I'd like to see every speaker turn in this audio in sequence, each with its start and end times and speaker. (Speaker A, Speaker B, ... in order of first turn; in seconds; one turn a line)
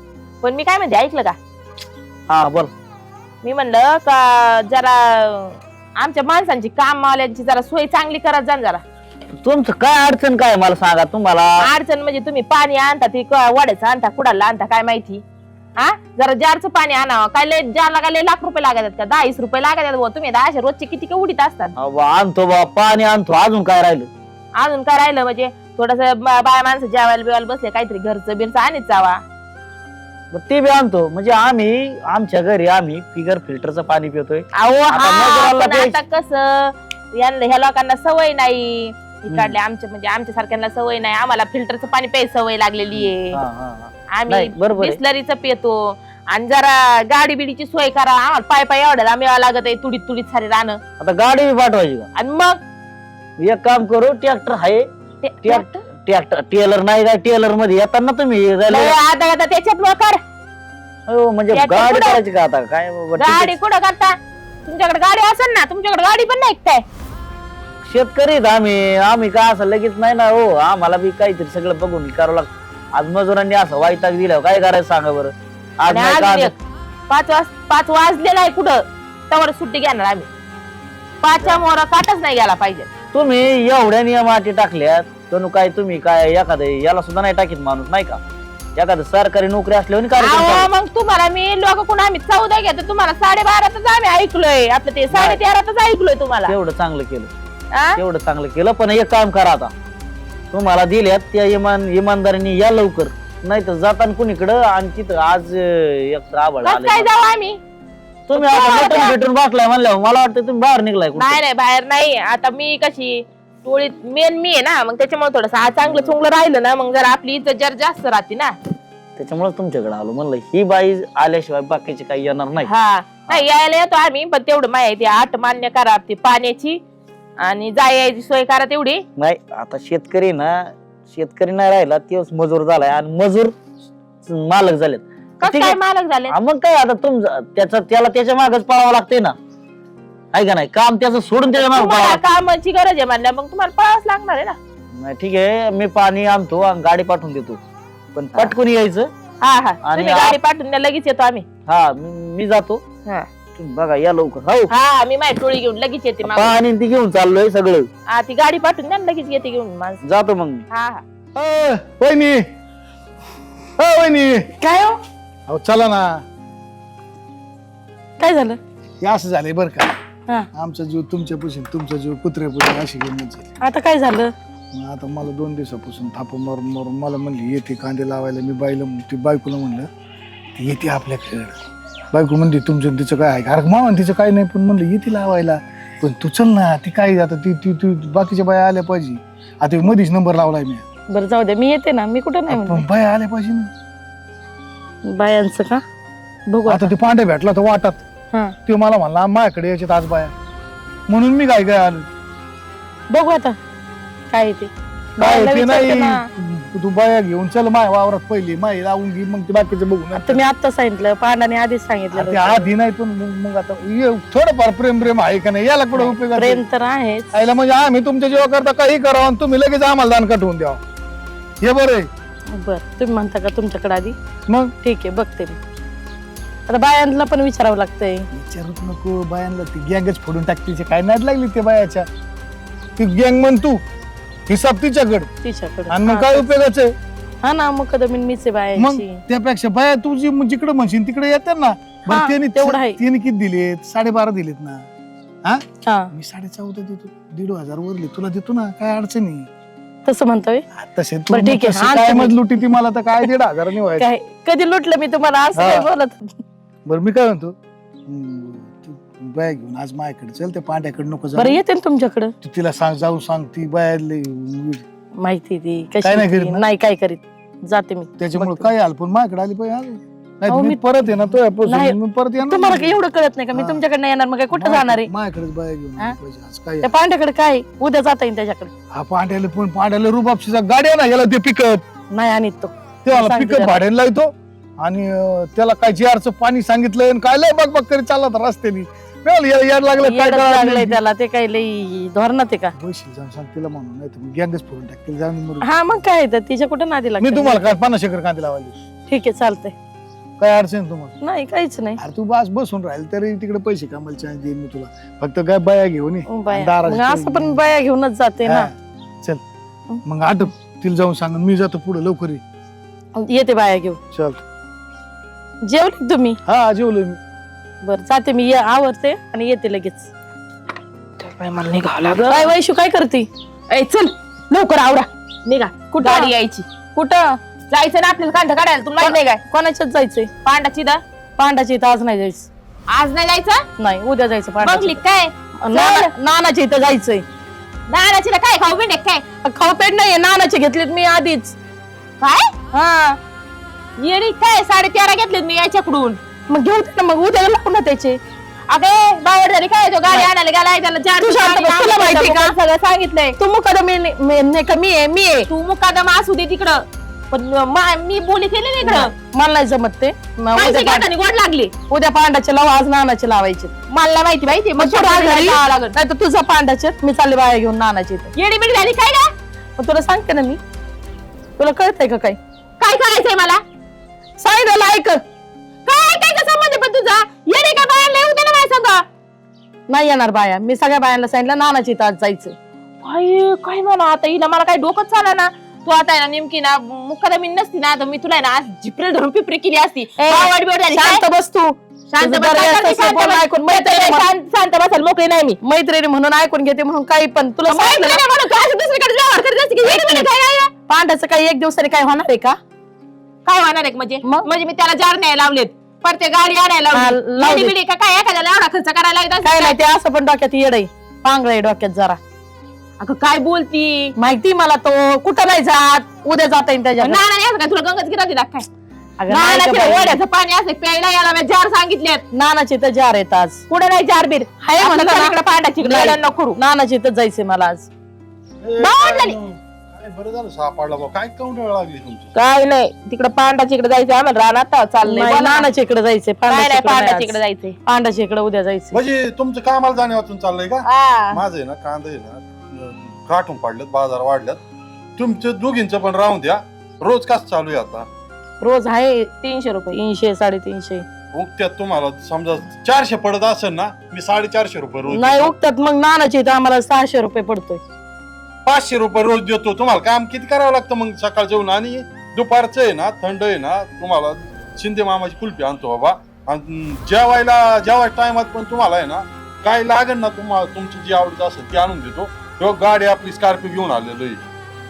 Speaker A: 0.4-1.4
Speaker B: 2.3-2.7
Speaker A: 3.4-8.8
Speaker B: 9.4-11.7
Speaker A: 11.6-15.2
Speaker A: 15.8-21.7
Speaker B: 21.8-24.1
Speaker A: 24.6-29.2
Speaker B: 30.3-36.0
Speaker A: 34.6-43.4
Speaker B: 42.9-45.0
Speaker A: 44.1-50.8
Speaker B: 51.0-52.1
Speaker A: 52.1-52.6
Speaker B: 53.4-54.9
Speaker A: 55.2-55.8
Speaker B: 55.4-59.0
Speaker A: 58.7-60.2
Speaker B: 61.1-63.5
Speaker A: 61.5-62.2
Speaker A: 63.2-66.8
Speaker B: 67.8-76.5
Speaker A: 75.9-76.5
Speaker A: 77.1-80.3
Speaker A: 81.2-82.9
Speaker B: 83.1-88.2
Speaker B: 88.8-90.7
Speaker A: 90.2-96.5
Speaker B: 95.1-95.4
Speaker B: 96.5-97.3
Speaker B: 98.0-99.7
Speaker B: 100.5-107.1
Speaker A: 106.6-107.6
Speaker B: 108.3-111.4
Speaker A: 108.3-109.2
Speaker A: 111.2-118.5
Speaker B: 115.8-116.1
Speaker B: 119.2-122.7
Speaker A: 122.6-126.8
Speaker A: 127.4-129.0
Speaker B: 129.2-133.5
Speaker B: 134.2-139.3
Speaker A: 135.4-136.3
Speaker B: 140.3-142.2
Speaker A: 141.5-144.6
Speaker B: 144.9-147.6
Speaker B: 148.1-149.1
Speaker A: 149.4-151.4
Speaker B: 149.8-150.4
Speaker B: 151.7-152.8
Speaker B: 153.6-154.7
Speaker A: 154.7-156.6
Speaker B: 156.2-157.9
Speaker A: 158.1-160.0
Speaker B: 160.0-160.6
Speaker A: 160.7-161.0
Speaker C: 161.3-162.4
Speaker C: 163.8-164.5
Speaker D: 164.6-165.0
Speaker C: 165.5-166.2
Speaker D: 168.2-168.6
Speaker C: 169.0-169.9
Speaker C: 170.5-173.5
Speaker D: 173.6-174.3
Speaker C: 174.7-179.9
Speaker C: 180.6-181.5
Speaker C: 182.1-190.8
Speaker D: 191.1-192.8
Speaker C: 192.5-193.7
Speaker D: 195.1-195.8
Speaker D: 196.5-196.9
Speaker C: 196.7-198.0
Speaker C: 198.6-200.3
Speaker C: 201.1-202.1
Speaker D: 203.1-203.6
Speaker D: 204.3-206.2
Speaker C: 205.2-210.4
Speaker D: 210.1-212.7
Speaker C: 212.1-216.6
Speaker D: 215.9-217.3
Speaker C: 217.3-220.8
Speaker C: 221.6-222.1
Speaker D: 222.5-224.2
Speaker D: 224.8-225.6
Speaker D: 226.7-228.3
Speaker C: 228.3-232.1
Speaker C: 233.0-233.8
Speaker C: 234.5-235.3
Speaker D: 235.4-236.5
Speaker C: 235.9-236.9
Speaker D: 237.4-239.2
Speaker C: 238.8-244.8
Speaker D: 242.1-243.0
Speaker C: 245.4-249.5
Speaker D: 245.8-246.1
Speaker D: 250.0-250.6
Speaker C: 250.7-254.1
Speaker D: 251.3-252.4
Speaker D: 254.0-256.2
Speaker C: 255.5-255.9
Speaker C: 256.9-257.5
Speaker C: 258.1-261.6
Speaker D: 261.4-262.3
Speaker C: 262.4-264.8
Speaker D: 265.2-268.7
Speaker C: 266.0-266.6
Speaker C: 268.2-273.0
Speaker D: 270.5-275.1
Speaker C: 273.5-273.8
Speaker C: 274.5-276.9
Speaker D: 276.8-278.7
Speaker C: 278.9-281.8
Speaker D: 282.1-283.8
Speaker C: 283.0-291.0
Speaker D: 290.0-292.7
Speaker C: 292.7-296.0
Speaker D: 295.6-297.7
Speaker C: 297.2-298.7
Speaker D: 299.1-299.7
Speaker C: 300.4-301.2
Speaker D: 301.2-302.0
Speaker C: 302.0-307.6
Speaker D: 306.3-308.7
Speaker C: 308.4-308.7
Speaker C: 310.0-312.4
Speaker D: 313.2-314.0
Speaker C: 314.1-314.4
Speaker D: 315.6-316.4
Speaker C: 316.4-317.2
Speaker D: 317.8-320.1
Speaker A: 321.2-322.5
Speaker D: 322.3-323.3
Speaker A: 323.7-326.6
Speaker D: 325.9-326.3
Speaker D: 326.9-327.4
Speaker A: 327.7-329.4
Speaker D: 329.0-330.3
Speaker A: 330.4-331.0
Speaker D: 331.4-332.5
Speaker A: 332.9-333.6
Speaker D: 333.8-335.0
Speaker A: 334.6-336.1
Speaker D: 335.6-337.2
Speaker A: 337.9-339.2
Speaker D: 339.4-341.6
Speaker A: 342.2-342.5
Speaker D: 342.7-343.2
Speaker A: 344.0-346.2
Speaker D: 346.5-348.2
Speaker A: 348.7-353.4
Speaker D: 351.2-352.5
Speaker D: 353.4-355.5
Speaker A: 355.5-359.1
Speaker D: 358.8-361.1
Speaker A: 360.5-361.7
Speaker D: 361.9-363.7
Speaker A: 363.9-365.9
Speaker D: 364.8-368.3
Speaker A: 368.3-369.3
Speaker D: 369.8-370.6
Speaker D: 371.6-372.4
Speaker A: 372.8-373.6
Speaker D: 374.4-375.2
Speaker A: 375.9-379.0
Speaker D: 379.9-382.6
Speaker A: 383.0-391.2
Speaker D: 390.2-394.2
Speaker A: 392.1-395.6
Speaker D: 395.6-398.2
Speaker A: 397.6-400.7
Speaker D: 399.8-400.3
Speaker D: 400.9-402.6
Speaker A: 403.4-409.8
Speaker D: 406.9-407.7
Speaker D: 409.4-412.2
Speaker A: 413.0-414.1
Speaker D: 414.1-417.2
Speaker A: 417.0-418.7
Speaker D: 419.2-420.2
Speaker A: 419.3-422.2
Speaker D: 422.3-423.6
Speaker A: 423.7-426.6
Speaker D: 424.6-427.9
Speaker E: 428.6-432.3
Speaker A: 428.8-429.4
Speaker A: 432.3-435.7
Speaker D: 435.0-439.0
Speaker A: 436.5-437.8
Speaker E: 438.9-444.6
Speaker A: 440.9-441.4
Speaker E: 445.2-448.1
Speaker D: 448.6-449.3
Speaker A: 449.4-450.0
Speaker D: 449.9-451.0
Speaker E: 451.3-455.5
Speaker D: 455.1-457.8
Speaker E: 458.6-474.4